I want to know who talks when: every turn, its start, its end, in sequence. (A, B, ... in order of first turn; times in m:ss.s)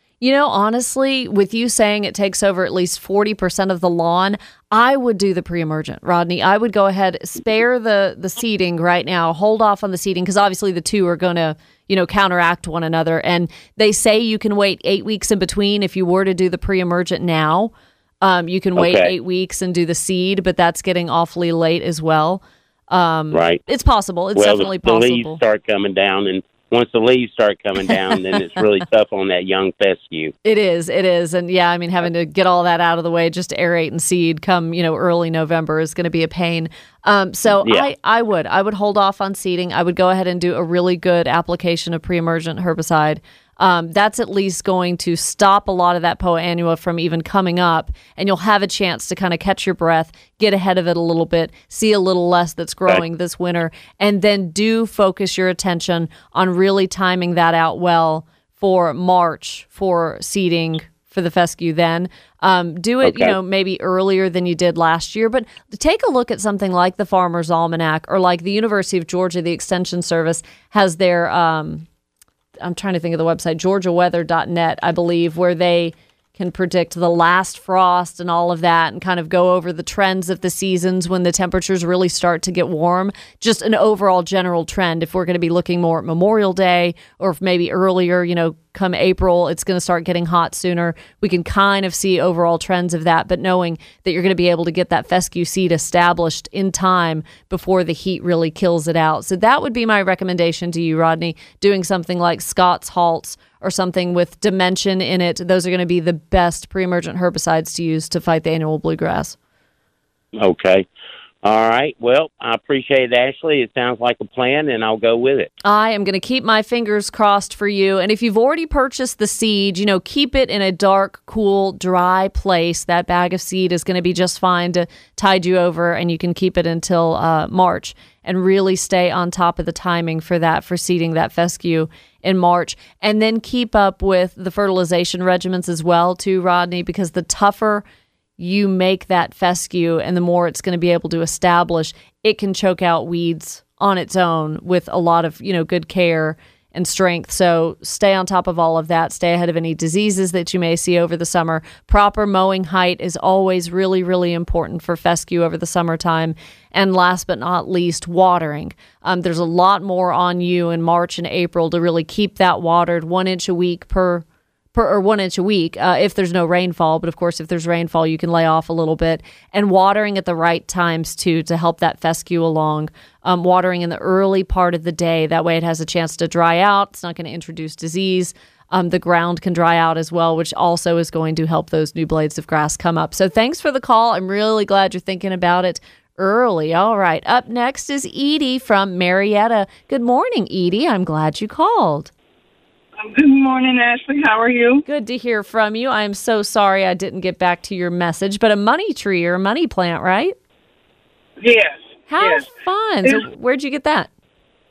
0:00.2-0:25.4 A
0:18.8-0:19.1 B
0:23.3-0:23.6 B
0:24.3-0:30.3 B
0:27.9-0:28.4 A
0:30.4-1:11.8 A
0:37.6-0:37.9 B
1:03.0-1:03.4 B
1:12.6-1:49.4 A
1:50.3-1:50.8 B
1:51.4-1:55.5 B
1:55.6-2:17.8 A
2:18.4-3:12.1 A
3:13.0-3:14.8 C
3:14.8-3:20.4 A
3:21.4-3:22.5 C
3:22.1-3:24.1 A